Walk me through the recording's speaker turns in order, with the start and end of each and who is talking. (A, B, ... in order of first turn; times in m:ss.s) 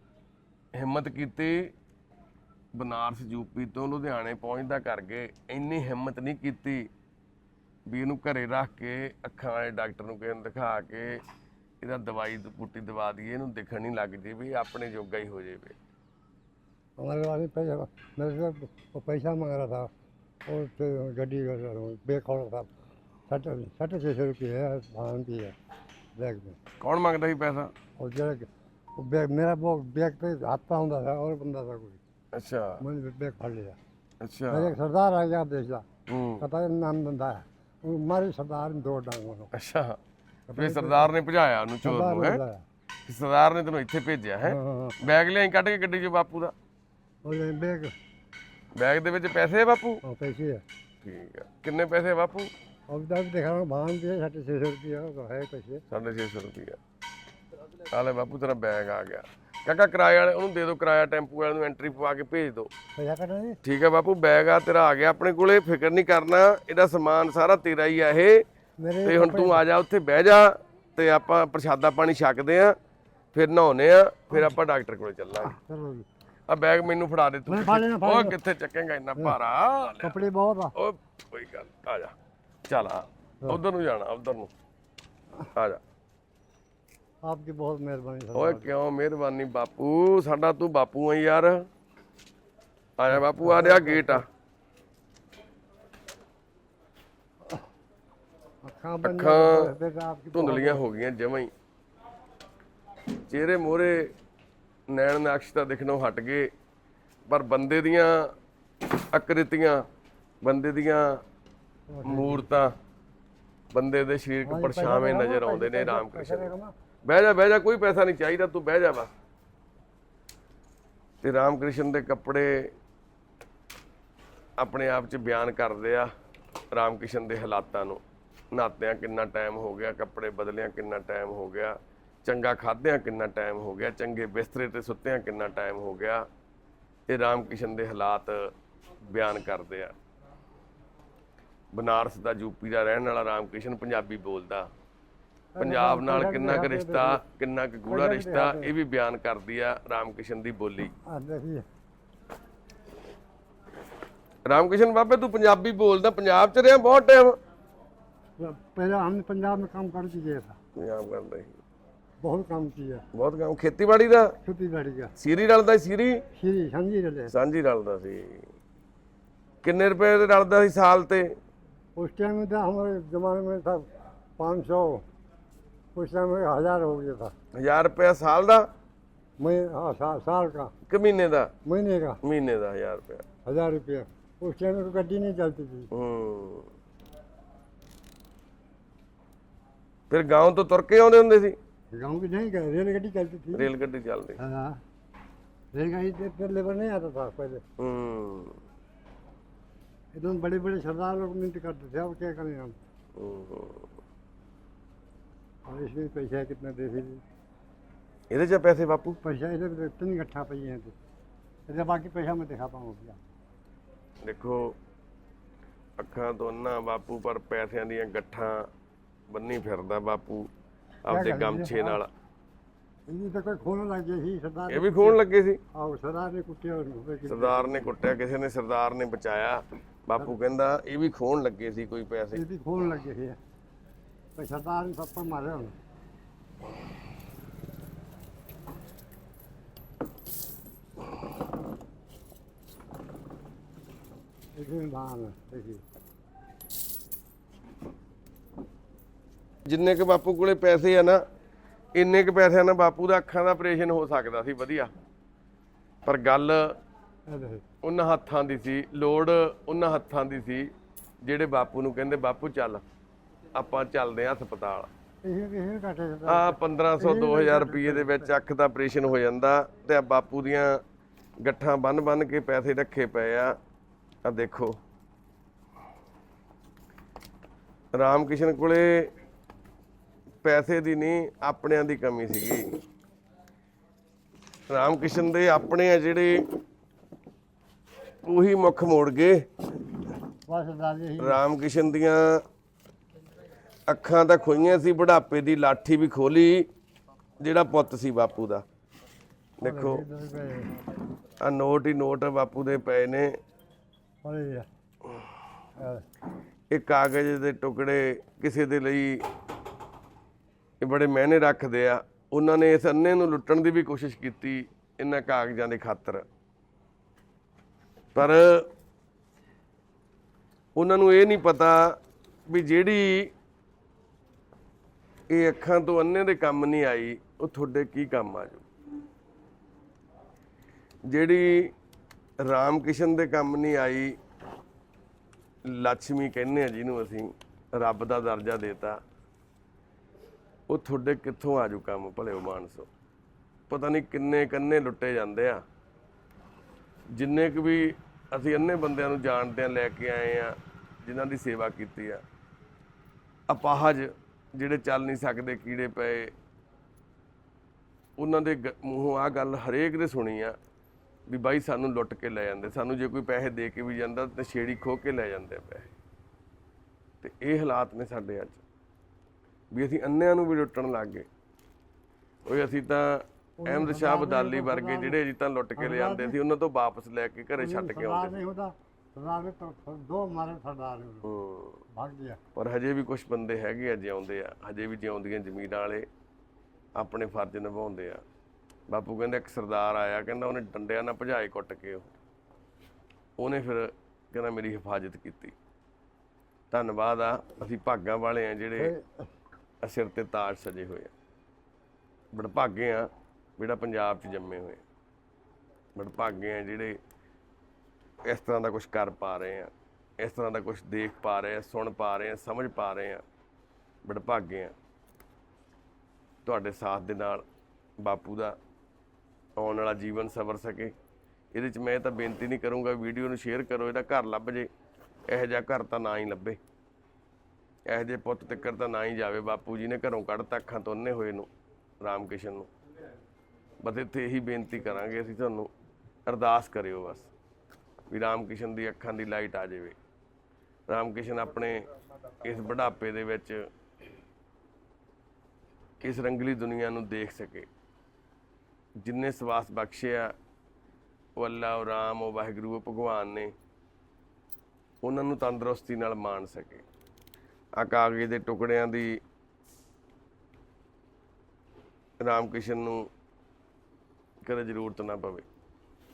0:00.8-0:01.7 A
0:02.8-0:06.9 A
0:07.9-0:11.2 A
0:11.8-0:15.8 A
0:17.0-0:19.9 B
0:20.5-0:22.7 B
0:23.3-0:25.6 B
0:26.2-0:26.6 B
0:26.8-0:27.7 A
0:28.0-0:32.0 B
0:32.3-0:32.8 A
0:32.8-0:33.8 B
0:34.2-0:34.7 A
0:34.5-0:35.8 B
0:36.1-0:36.5 A
0:36.4-0:39.5 B
0:39.5-0:40.0 A
0:40.5-0:41.1 B
0:40.6-0:42.4 A
0:41.8-0:42.6 B
0:43.1-0:46.5 A
0:44.4-0:45.0 B
0:47.2-0:47.9 B
0:48.8-0:50.0 A
0:50.0-0:50.6 B
0:51.0-0:52.5 A
0:52.9-0:55.8 B
0:55.9-0:56.8 A
0:57.9-1:02.7 A
1:03.0-1:03.6 B
1:03.6-1:08.4 A
1:08.8-1:09.6 B
1:09.0-1:12.8 A
1:13.3-1:15.6 A
1:14.3-1:14.6 B
1:15.4-1:16.1 B
1:16.5-1:20.2 A
1:17.5-1:18.4 B
1:20.0-1:20.7 B
1:20.8-1:22.2 A
1:22.7-1:24.5 A
1:25.6-1:25.8 A
1:27.2-1:28.7 B
1:28.4-1:31.7 A
1:33.0-1:34.2 A
1:33.1-1:34.2 B
1:38.6-1:40.8 B
1:39.0-1:39.7 A
1:40.3-1:41.5 A
1:43.3-1:44.1 A
1:44.9-1:46.5 A
1:47.3-1:48.3 A
1:49.0-1:49.8 A
1:50.4-1:51.2 A
1:51.9-1:52.5 B
1:52.0-1:52.7 A
1:53.7-1:56.5 A
1:54.4-1:56.7 B
1:57.1-1:59.1 A
2:01.2-2:02.7 A
2:04.6-2:06.1 A
2:06.7-2:08.0 A
2:08.5-2:16.3 A
2:17.1-2:18.5 A
2:19.1-2:20.0 A
2:21.7-2:24.7 A
2:25.6-2:27.2 B
2:25.6-2:30.9 A
2:27.9-2:28.7 B
2:31.1-2:31.6 B
2:34.5-2:37.4 A
2:38.4-2:40.6 B
2:40.8-2:41.6 A
2:42.2-2:43.0 B
2:43.1-2:44.4 A
2:44.4-2:45.1 B
2:45.2-2:46.2 A
2:46.4-2:47.3 B
2:47.3-2:48.5 A
2:49.6-2:51.4 A
2:52.0-2:55.0 B
2:56.0-2:57.3 B
2:57.6-2:58.7 A
2:59.4-3:00.7 B
3:00.9-3:01.5 A
3:01.7-3:02.2 B
3:02.2-3:03.3 A
3:03.5-3:05.9 B
3:05.9-3:06.7 A
3:10.1-3:11.6 A
3:11.9-3:13.7 B
3:13.5-3:14.4 A
3:14.4-3:14.8 B
3:15.7-3:17.6 B
3:17.8-3:18.6 A
3:20.1-3:22.7 B
3:23.2-3:23.9 A
3:25.7-3:27.2 B
3:28.3-3:29.2 A
3:29.2-3:31.0 B
3:31.7-3:33.2 B
3:34.2-3:34.8 A
3:36.0-3:38.7 A
3:39.3-3:40.5 A
3:41.1-3:42.1 A
3:41.1-3:42.0 B
3:43.1-3:45.2 B
3:44.7-3:45.6 A
3:45.7-3:47.9 B
3:47.3-3:52.4 A
3:52.3-3:53.4 B
3:54.4-3:55.8 B
4:04.6-4:05.8 B
4:09.7-4:11.2 A
4:12.0-4:14.9 A
4:16.0-4:16.8 A
4:17.3-4:17.6 B
4:17.8-4:20.7 A
4:21.2-4:22.8 A
4:23.5-4:24.9 A
4:25.2-4:28.4 B
4:26.3-4:30.8 A
4:31.4-4:33.6 A
4:34.2-4:34.8 A
4:37.9-4:39.1 A
4:40.4-4:42.7 A
4:44.7-4:46.4 A
4:48.3-4:49.4 A
4:50.5-4:51.4 B
4:51.2-4:52.4 A
4:53.9-4:56.7 A
4:57.4-4:58.6 A
4:59.6-5:00.0 A
4:59.6-5:00.7 B
5:01.4-5:03.3 A
5:04.2-5:04.7 B
5:05.8-5:06.0 B
5:06.7-5:09.2 A
5:10.8-5:16.2 A
5:18.2-5:18.7 A
5:20.8-5:22.0 A
5:22.5-5:23.3 A
5:25.3-5:28.6 A
5:31.1-5:31.7 A
5:32.4-5:34.2 A
5:35.7-5:39.0 A
5:40.7-5:42.9 A
5:43.7-5:45.6 A
5:47.1-5:52.2 A
5:53.5-5:56.3 A
5:58.2-6:00.6 A
6:01.3-6:05.9 A
6:07.2-6:08.6 A
6:09.7-6:11.3 A
6:12.5-6:18.4 A
6:13.6-6:15.2 B
6:15.8-6:16.4 B
6:17.6-6:21.3 B
6:21.2-6:21.8 A
6:21.9-6:22.4 B
6:22.6-6:26.1 A
6:27.0-6:28.2 A
6:28.9-6:32.1 A
6:33.4-6:35.6 A
6:36.7-6:38.9 A
6:38.8-6:39.3 B
6:39.8-6:41.1 A
6:42.3-6:44.8 A
6:46.0-6:47.0 A
6:48.3-6:53.2 A
6:54.0-6:54.7 A
6:56.4-6:57.4 A
6:58.0-6:58.6 A
6:59.6-7:01.0 A
7:01.5-7:04.7 A
7:05.3-7:06.6 A
7:07.9-7:11.5 A
7:12.0-7:12.7 A
7:13.8-7:15.7 A
7:16.3-7:17.3 A
7:18.1-7:20.0 A
7:20.9-7:21.9 A
7:22.4-7:23.7 A
7:26.0-7:27.7 A
7:29.0-7:30.3 A
7:31.4-7:33.5 A
7:35.0-7:36.8 A
7:37.8-7:39.2 A
7:42.2-7:43.1 A
7:44.4-7:45.5 A